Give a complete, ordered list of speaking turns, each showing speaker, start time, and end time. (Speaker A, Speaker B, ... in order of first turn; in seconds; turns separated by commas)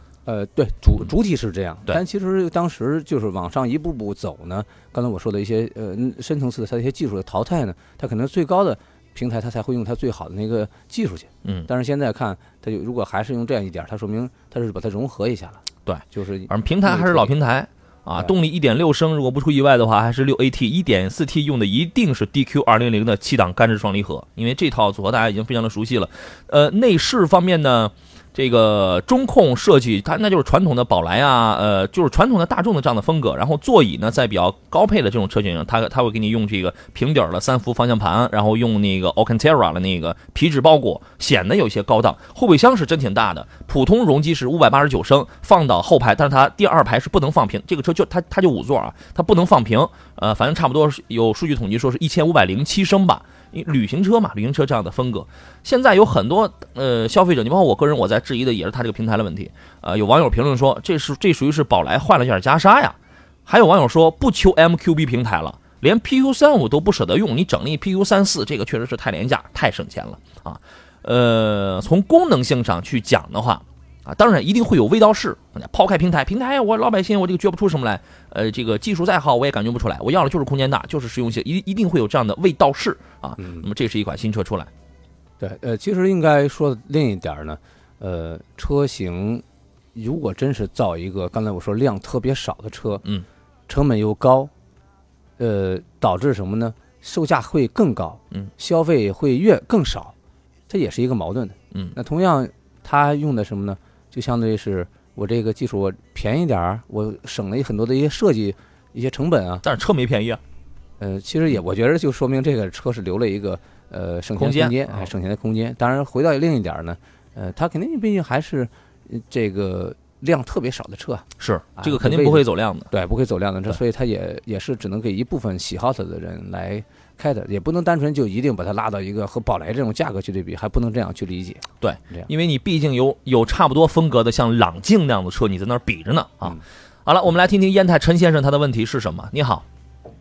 Speaker A: 0.2-17.3, Speaker B: 15.8-84.7, Speaker A: 83.4-83.7, Speaker A: 85.4-93.0, Speaker A: 93.7-94.5, Speaker A: 95.4-100.1, Speaker A: 100.7-109.6, Speaker B: 109.6-110.4, Speaker A: 111.0-132.3, Speaker B: 114.3-115.1, Speaker B: 121.4-122.9, Speaker B: 131.8-139.6